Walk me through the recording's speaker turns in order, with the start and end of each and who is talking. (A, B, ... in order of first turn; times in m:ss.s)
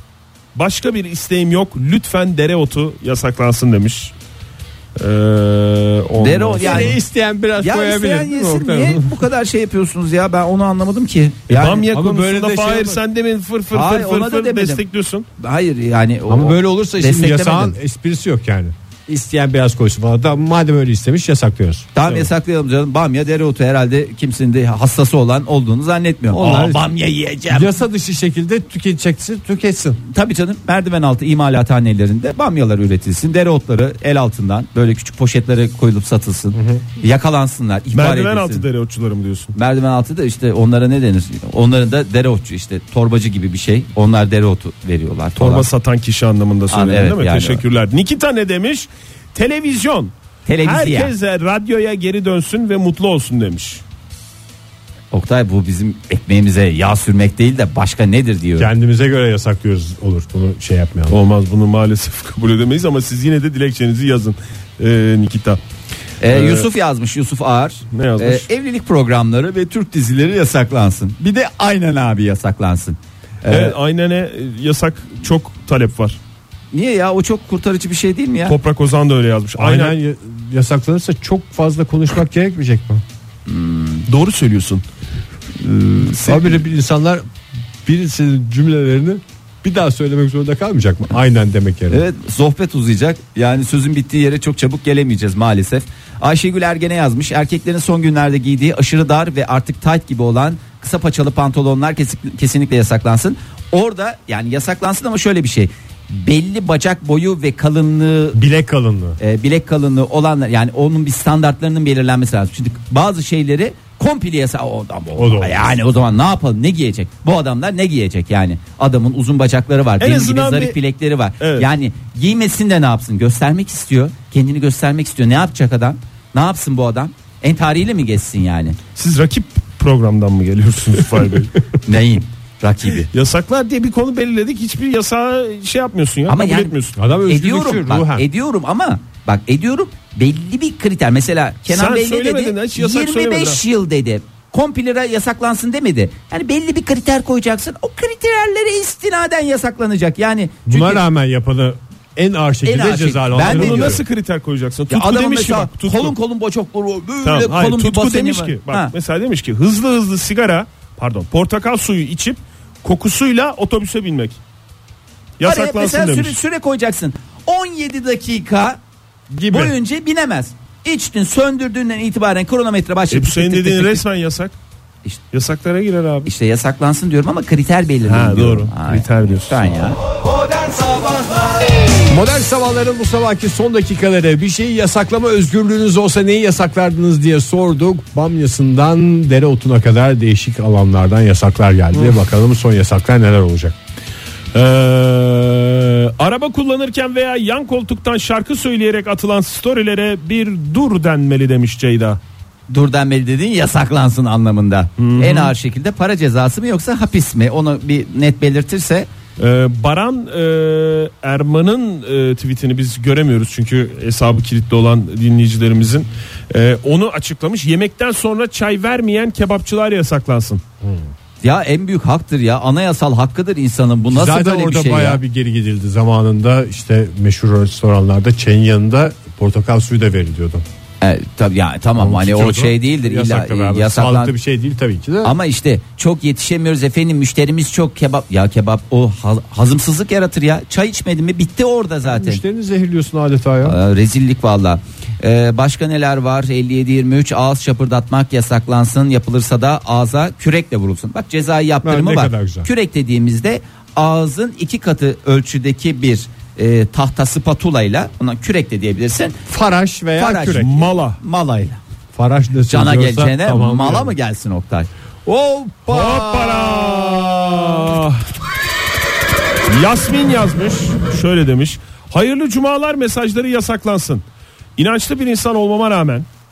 0:00.6-0:04.1 A
0:05.0-0:06.9 A
0:06.2-0:07.0 B
0:06.6-0:09.2 C
0:07.6-0:11.9 B
0:11.5-0:15.3 A
0:11.9-0:13.0 C
0:13.7-0:14.8 B
0:15.4-0:17.8 B
0:16.3-0:21.9 C
0:22.0-0:27.7 B
0:26.3-0:26.8 C
0:27.5-0:30.0 C
0:30.1-0:38.6 B
0:36.5-0:36.8 C
0:37.9-0:39.6 A
0:39.6-0:45.7 B
0:45.4-0:53.8 A
0:46.7-0:47.6 B
0:50.5-0:51.1 B
0:55.1-0:58.7 B
0:58.6-1:01.2 C
1:01.1-1:05.6 A
1:06.2-1:13.8 B
1:06.3-1:06.7 A
1:07.9-1:08.4 A
1:13.5-1:16.2 A
1:16.7-1:18.6 B
1:18.5-1:20.0 A
1:19.6-1:23.0 C
1:23.5-1:24.1 B
1:24.1-1:24.8 A
1:26.2-1:26.6 A
1:26.2-1:27.2 C
1:27.8-1:32.0 C
1:31.9-1:48.4 B
1:48.3-1:49.2 C
1:49.2-2:08.8 B
1:55.2-1:55.6 C
2:00.0-2:00.8 A
2:01.4-2:01.7 A
2:09.0-2:11.5 A
2:11.9-2:13.1 B
2:13.0-2:17.0 A
2:16.3-2:31.0 B
2:17.0-2:18.3 C
2:21.7-2:23.6 A
2:30.7-2:34.0 C
2:32.6-2:34.0 B
2:33.4-2:36.1 A
2:34.9-2:38.9 B
2:37.2-2:44.4 A
2:45.4-2:46.4 A
2:45.4-2:48.8 B
2:49.3-2:49.7 C
2:49.5-2:54.0 B
2:53.1-2:54.6 A
2:55.3-2:56.3 A
2:56.3-3:00.0 B
2:58.0-2:59.7 A
3:00.5-3:01.1 C
3:02.1-3:13.8 C
3:14.5-3:22.2 A
3:22.7-3:29.1 B
3:25.0-3:25.5 A
3:29.4-3:40.6 A
3:40.8-3:41.1 C
3:41.4-3:45.2 B
3:44.1-3:50.6 C
3:51.0-3:54.3 B
3:52.0-3:55.4 C
3:55.2-4:02.4 B
4:02.1-4:03.8 C
4:03.6-4:19.4 B
4:11.8-4:12.7 C
4:19.5-4:20.7 C
4:20.2-4:21.8 B
4:20.5-4:21.2 A
4:22.1-4:24.1 C
4:22.7-4:24.9 B
4:25.3-4:28.0 C
4:25.9-4:28.3 A
4:29.7-4:34.2 A
4:34.8-4:36.3 A